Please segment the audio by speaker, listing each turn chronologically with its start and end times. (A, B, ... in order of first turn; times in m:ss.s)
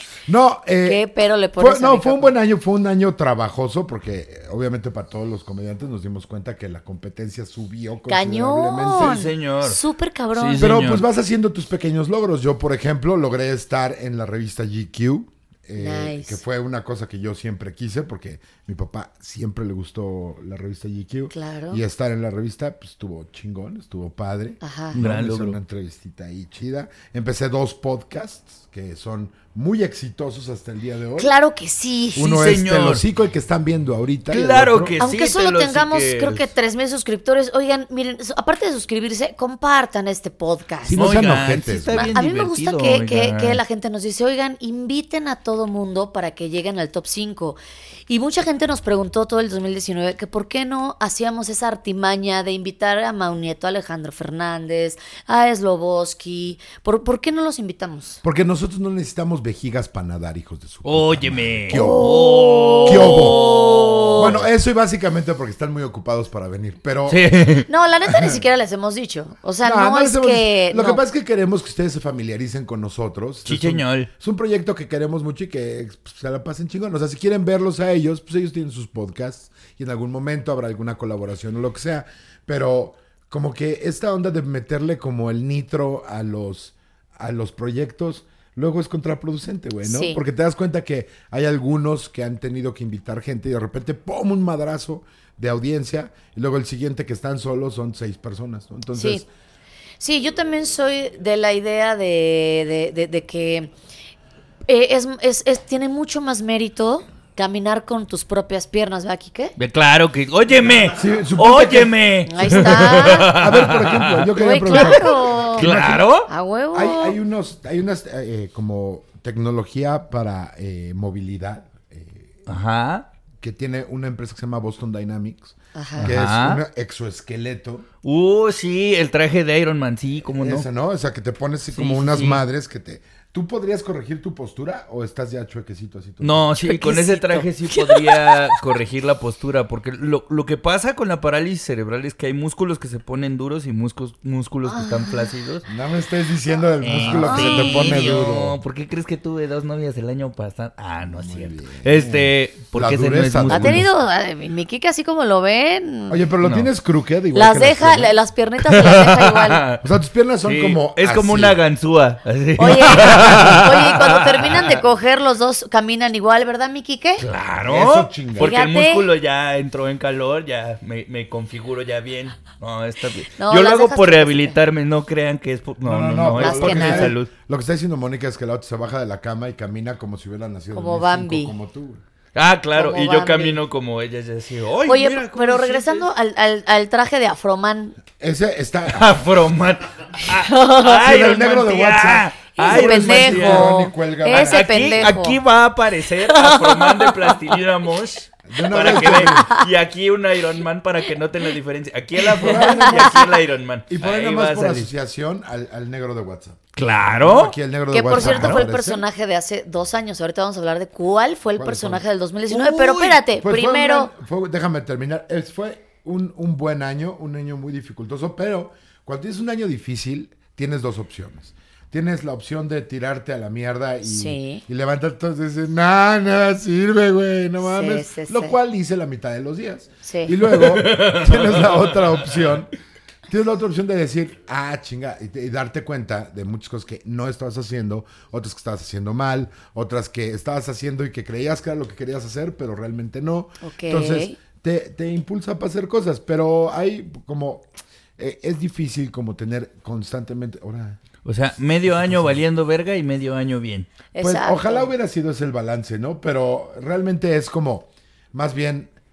0:00.2-0:01.0 A
0:00.8-0:02.3 B
0:01.6-0:09.2 A
0:08.1-0:10.6 B
0:08.9-0:09.8 C
0:10.3-0:11.0 C
0:10.6-0:31.3 A
0:15.8-0:16.4 B
0:21.3-0:21.8 B
0:24.6-0:25.0 B
0:24.9-0:25.6 C
0:31.2-0:32.3 B
0:32.1-0:35.0 A
0:32.2-0:33.0 C
0:34.3-0:36.5 C
0:35.0-0:41.0 B
0:40.8-0:42.1 A
0:41.0-0:43.6 C
0:41.9-0:58.2 B
0:58.2-1:02.1 A
1:00.8-1:04.5 C
1:01.7-1:04.3 B
1:02.8-1:03.4 A
1:04.1-1:07.2 A
1:07.1-1:07.7 C
1:07.7-1:11.0 B
1:08.1-1:08.4 A
1:09.6-1:39.3 A
1:13.4-1:14.1 C
1:29.8-1:30.2 B
1:39.0-1:39.2 B
1:40.0-1:43.7 B
1:44.7-1:49.5 B
1:49.6-1:56.3 C
1:50.9-1:51.9 A
1:52.2-1:53.3 B
1:52.5-1:56.1 A
1:54.4-1:55.7 B
1:56.3-1:57.2 B
1:56.7-2:02.4 A
2:02.5-2:03.1 C
2:03.4-2:07.8 A
2:05.7-2:06.1 B
2:06.0-2:06.6 C
2:08.0-2:10.7 C
2:10.3-2:16.5 A
2:11.7-2:12.4 C
2:16.2-2:25.6 C
2:16.6-2:18.6 B
2:24.6-2:25.3 B
2:25.6-2:28.6 A
2:26.8-2:33.9 C
2:27.0-2:28.1 B
2:31.1-2:33.9 A
2:33.5-2:36.2 B
2:36.1-2:38.1 A
2:36.4-2:36.7 C
2:37.3-2:39.6 B
2:38.6-2:39.8 C
2:39.8-2:41.6 A
2:40.4-2:44.8 C
2:42.6-2:47.3 B
2:47.2-2:57.3 C
2:47.6-2:48.5 A
2:48.4-2:49.1 B
2:53.4-2:54.6 B
2:55.8-3:02.0 A
2:56.4-2:57.1 B
3:00.7-3:01.5 B
3:02.3-3:06.1 C
3:02.7-3:03.6 B
3:04.8-3:08.0 B
3:08.2-3:09.1 A
3:08.9-3:13.8 C
3:10.2-3:11.1 B
3:11.0-3:15.1 A
3:12.6-3:15.4 B
3:14.3-3:24.9 C
3:16.2-3:17.4 B
3:18.5-3:19.5 A
3:18.8-3:19.7 B
3:22.3-3:23.4 B
3:22.4-3:23.2 A
3:23.9-3:29.0 A
3:26.8-3:27.5 C
3:27.9-3:34.1 B
3:28.2-3:28.6 C
3:31.6-3:32.0 A
3:32.5-3:33.2 C
3:33.4-3:52.7 A
3:44.0-3:44.6 B
3:47.6-3:48.6 B
3:50.0-3:50.4 B
3:50.5-3:52.5 C
3:53.3-4:07.6 A
4:03.6-4:04.3 B
4:08.2-4:11.0 A
4:11.2-4:13.9 C
4:11.8-4:12.4 A
4:14.1-4:14.9 B
4:14.2-4:18.9 A